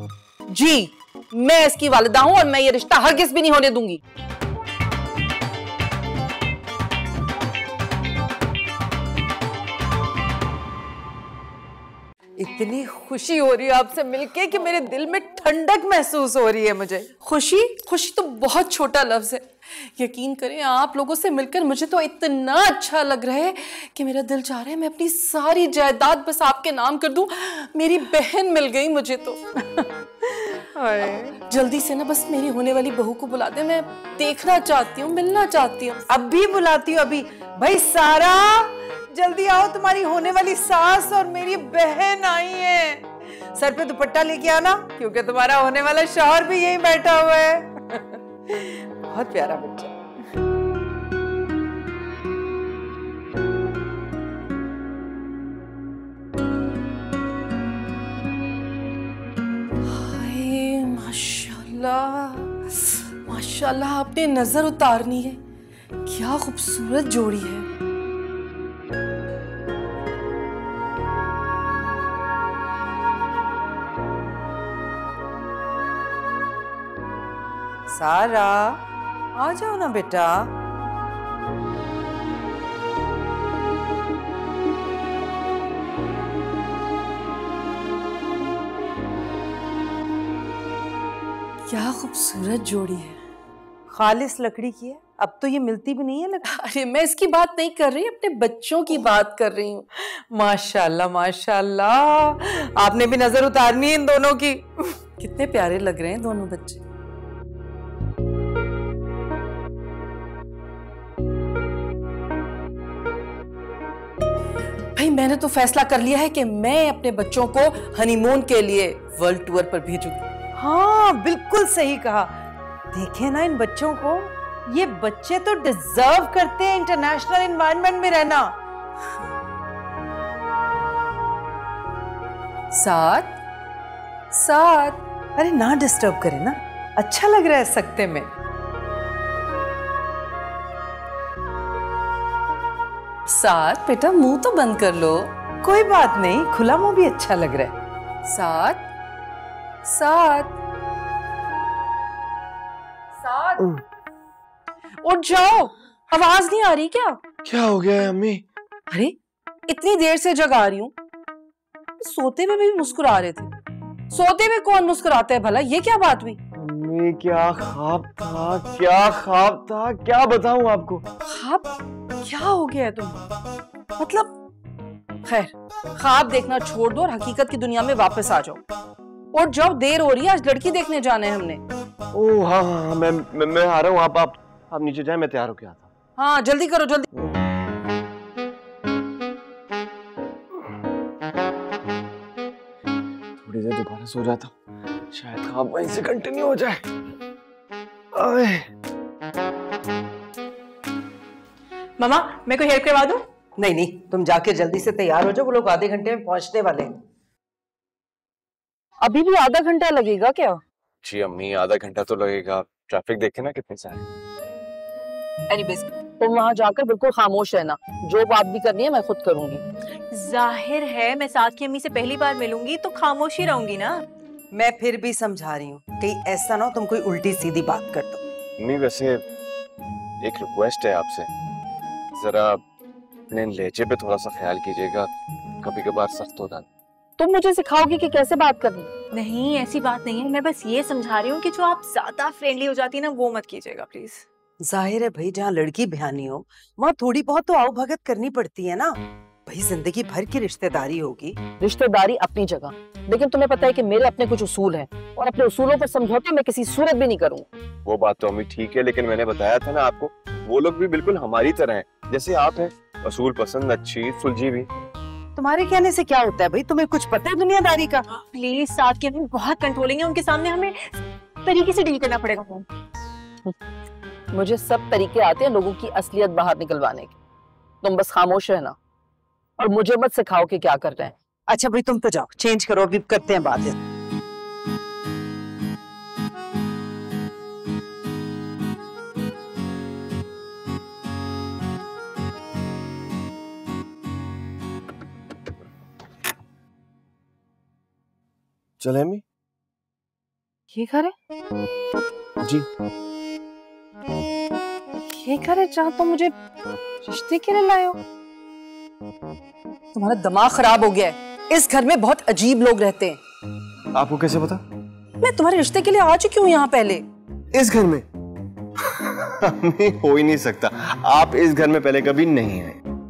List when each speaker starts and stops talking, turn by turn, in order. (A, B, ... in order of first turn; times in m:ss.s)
0:00.5-0:04.0 A
0:12.4-0:17.1 B
0:17.2-0:30.4 A
0:30.8-0:31.4 B
0:31.3-0:36.0 A
0:36.1-0:49.9 B
0:59.8-1:05.4 A
1:06.0-1:07.7 A
1:17.9-1:18.8 B
1:19.4-1:20.5 B
1:31.7-1:33.2 A
1:33.9-1:36.6 B
1:36.5-1:39.9 A
1:40.0-1:46.8 B
1:45.3-1:46.8 A
1:54.9-2:00.3 A
2:00.6-2:02.4 B
2:02.9-2:08.6 B
2:12.7-2:13.4 A
2:14.3-2:15.0 A
2:15.4-2:18.3 B
2:23.3-2:25.3 A
2:25.6-2:27.8 B
2:28.3-2:28.9 A
2:29.8-2:30.6 A
2:33.2-2:33.7 A
2:35.0-2:37.2 A
2:37.4-2:38.4 C
2:38.9-2:39.2 A
2:39.7-2:40.9 A
2:42.0-2:43.5 A
2:44.1-2:46.4 A
2:46.6-2:51.0 C
2:51.2-2:53.3 A
2:54.0-2:54.3 A
2:55.3-2:58.6 A
2:59.3-3:01.6 A
3:02.1-3:05.9 C
3:06.2-3:07.0 A
3:07.1-3:07.5 C
3:13.4-3:14.5 C
3:15.1-3:16.9 C
3:18.1-3:18.7 C
3:22.0-3:23.2 D
3:23.6-3:27.0 B
3:29.0-3:30.6 A
3:31.0-3:34.1 C
3:35.5-3:39.6 A
3:40.1-3:44.0 D
3:44.5-3:48.2 B
3:48.6-3:49.2 C
3:50.2-3:51.3 C
3:52.2-3:52.6 C
3:53.3-3:55.1 C
3:55.6-3:56.6 C
3:57.2-3:58.9 A
3:59.1-4:04.2 D
4:04.6-4:11.4 B
4:11.6-4:17.5 A
4:17.9-4:24.7 C
4:25.4-4:28.1 B
4:28.1-4:32.6 D
4:34.3-4:37.2 A
4:37.8-4:38.8 A
4:39.6-4:41.1 A
4:41.5-4:43.8 B
4:58.8-4:59.2 C
5:00.7-5:01.1 A
5:05.0-5:06.3 A
5:07.0-5:08.0 A
5:09.9-5:13.2 A
5:13.9-5:14.6 C
5:15.2-5:17.0 A
5:17.5-5:18.0 C
5:18.8-5:22.8 C